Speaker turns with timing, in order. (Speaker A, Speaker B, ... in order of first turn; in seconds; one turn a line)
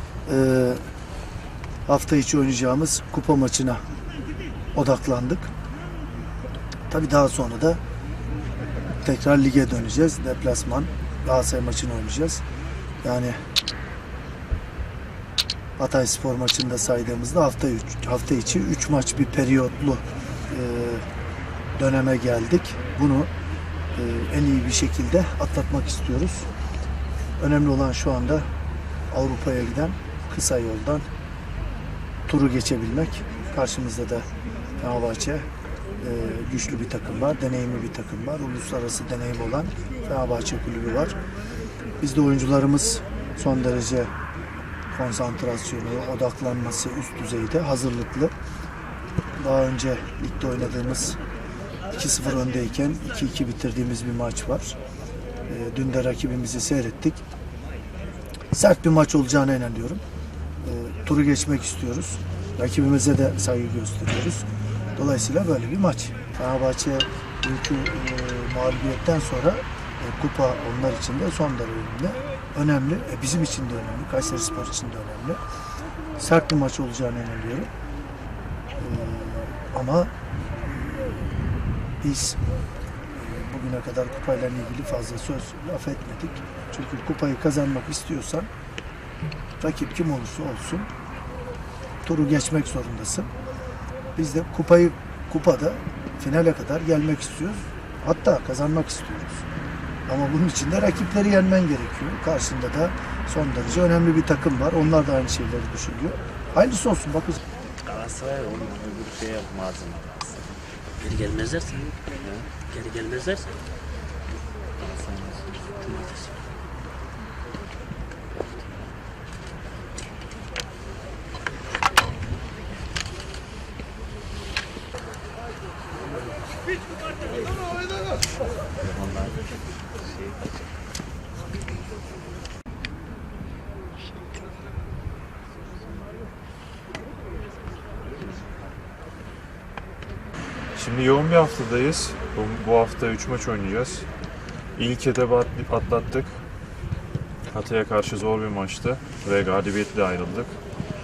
Speaker A: 0.3-0.8
Speaker A: 1.9-3.8
Speaker A: 4.7-5.5
Speaker A: 6.9-7.8
Speaker A: 9.0-12.4
Speaker A: 13.0-13.3
Speaker A: 15.8-21.0
Speaker A: 21.8-23.3
Speaker A: 23.9-26.5
Speaker A: 27.4-28.4
Speaker A: 29.1-31.0
Speaker A: 32.3-34.2
Speaker A: 34.8-35.5
Speaker A: 36.0-41.2
Speaker A: 42.0-44.1
Speaker A: 44.9-48.3
Speaker A: 49.4-51.2
Speaker A: 51.9-54.8
Speaker A: 55.5-57.2
Speaker A: 58.5-60.0
Speaker A: 60.6-64.4
Speaker A: 65.0-75.4
Speaker A: 76.2-77.7
Speaker A: 78.8-80.1
Speaker A: 80.6-81.3
Speaker A: 82.0-82.4
Speaker A: 83.1-88.5
Speaker A: 89.6-90.9
Speaker A: 92.0-93.3
Speaker A: 94.2-99.5
Speaker A: 100.1-107.4
Speaker B: 107.8-110.6
Speaker C: 111.0-112.0
Speaker B: 112.2-112.5
Speaker C: 112.7-113.5
Speaker B: 114.8-116.4
Speaker B: 128.8-129.5
Speaker D: 140.7-144.1
Speaker D: 144.8-146.4
Speaker D: 147.5-150.6